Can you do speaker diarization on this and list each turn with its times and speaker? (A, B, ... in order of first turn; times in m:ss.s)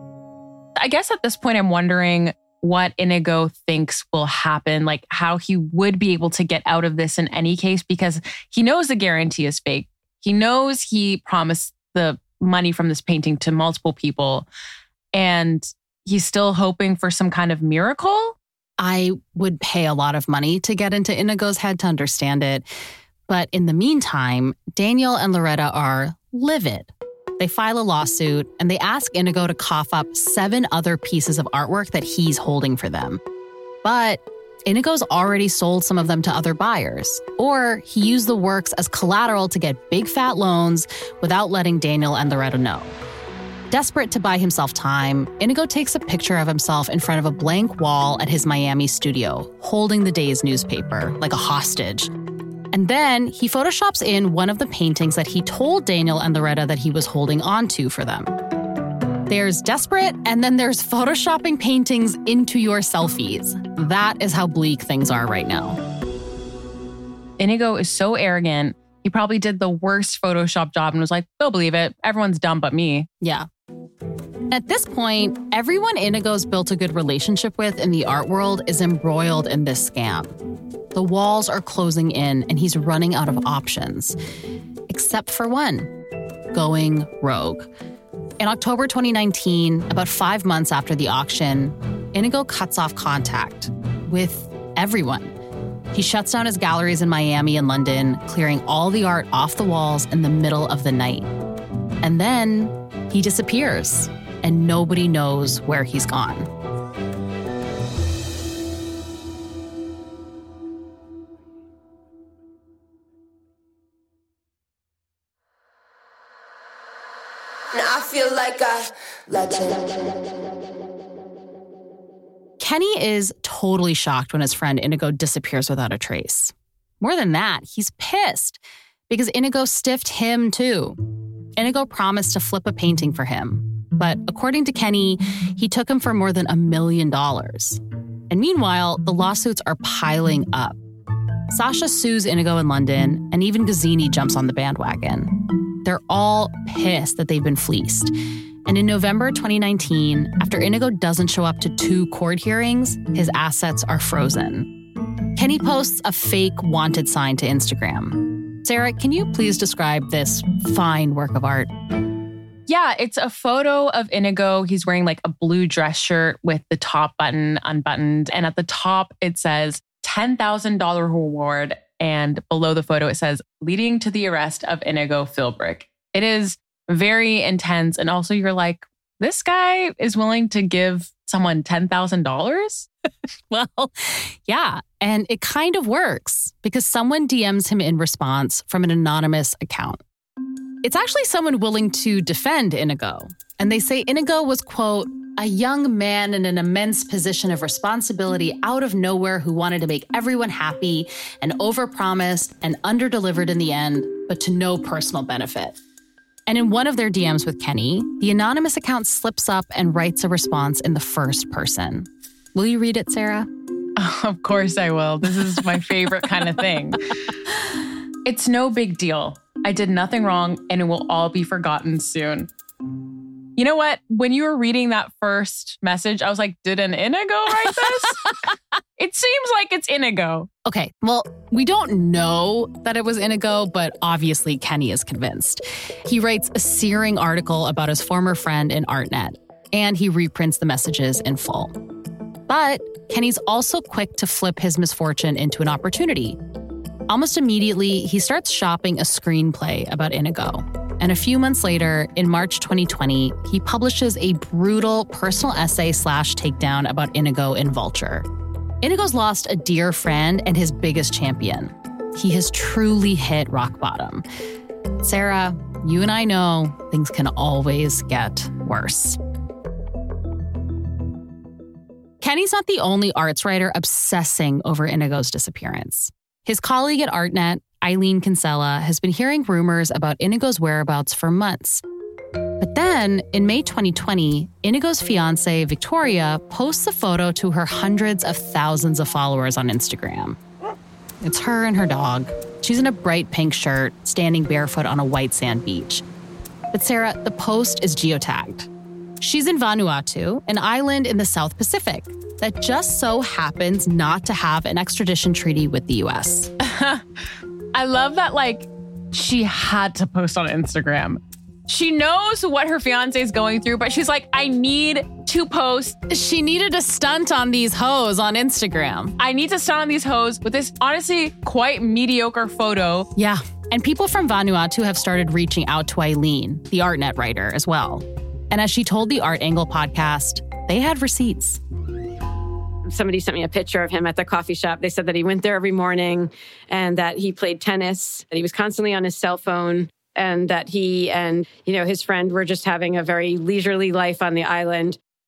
0:00.8-0:14.5 A
0:15.1-0:18.4 A
0:18.8-0:22.7 B
0:23.3-0:33.2 B
0:33.8-0:43.0 B
0:43.7-0:52.1 B
0:52.7-0:58.4 B
0:59.3-1:05.8 B
1:07.4-1:13.1 A
1:13.2-1:13.5 B
1:14.5-1:20.3 B
1:20.9-1:24.2 B
1:24.9-1:26.0 B
1:26.5-1:27.7 B
1:28.4-1:35.4 B
1:35.9-1:41.3 B
1:42.0-1:46.5 B
1:57.7-2:00.3 C
2:02.6-2:11.0 B
2:11.6-2:20.8 B
2:21.5-2:28.1 B
2:28.7-2:34.8 B
2:35.4-2:41.7 B
2:42.7-3:02.9 A
3:03.5-3:10.0 B
3:10.8-3:25.8 B
3:26.5-3:33.5 B
3:34.0-3:37.2 A
3:38.2-3:42.5 A
3:43.6-3:48.4 A
3:49.0-3:50.5 A
3:50.6-4:01.8 B
4:02.5-4:06.4 B
4:07.1-4:18.3 B
4:18.8-4:24.2 B
4:25.0-4:29.2 B
4:32.2-4:41.8 B
4:42.6-4:50.4 B
4:51.2-4:56.0 B
4:56.7-5:06.5 B
5:06.6-5:07.0 A
5:07.7-5:16.0 A
5:16.1-5:19.2 B
5:19.2-5:23.1 A
5:23.2-5:31.6 B
5:32.9-5:45.0 D